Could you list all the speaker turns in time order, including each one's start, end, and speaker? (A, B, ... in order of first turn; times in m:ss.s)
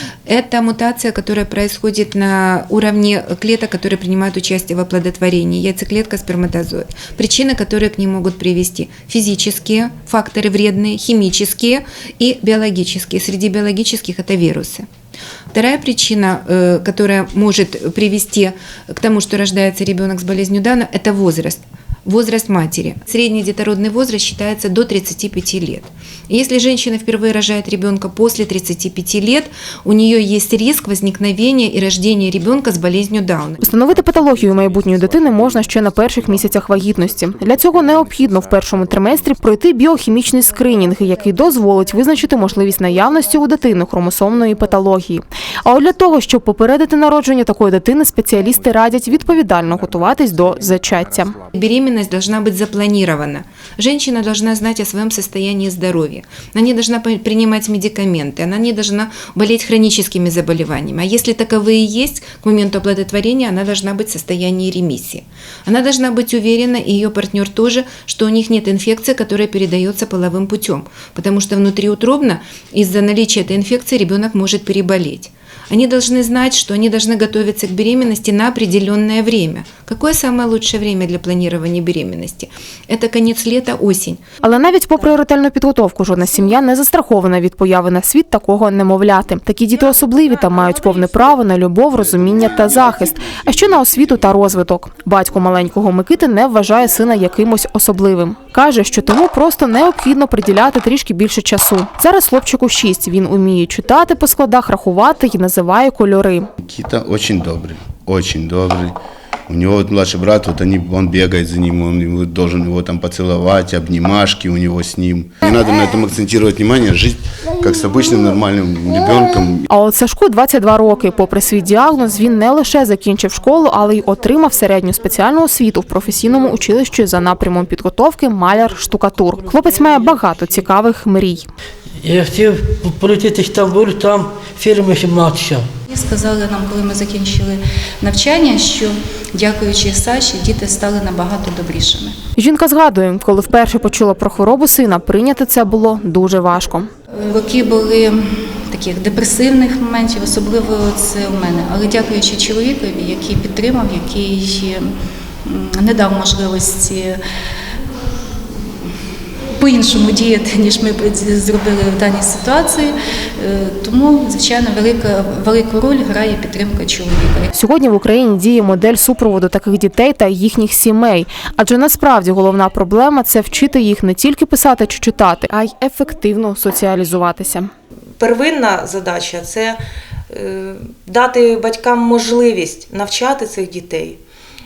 0:00.3-0:14.8 A
0:15.5-0:33.6 A
0:33.6-0:51.4 B
0:51.5-1:24.2 A
1:24.4-1:46.5 B
1:46.6-1:59.7 C
1:59.7-2:11.5 B
2:12.0-2:15.7 D
2:15.9-2:22.1 E
2:22.4-2:26.9 B
2:27.2-2:34.9 E
2:35.4-2:37.2 E
2:39.6-2:47.5 E
2:47.5-2:57.7 B
2:58.2-3:04.2 F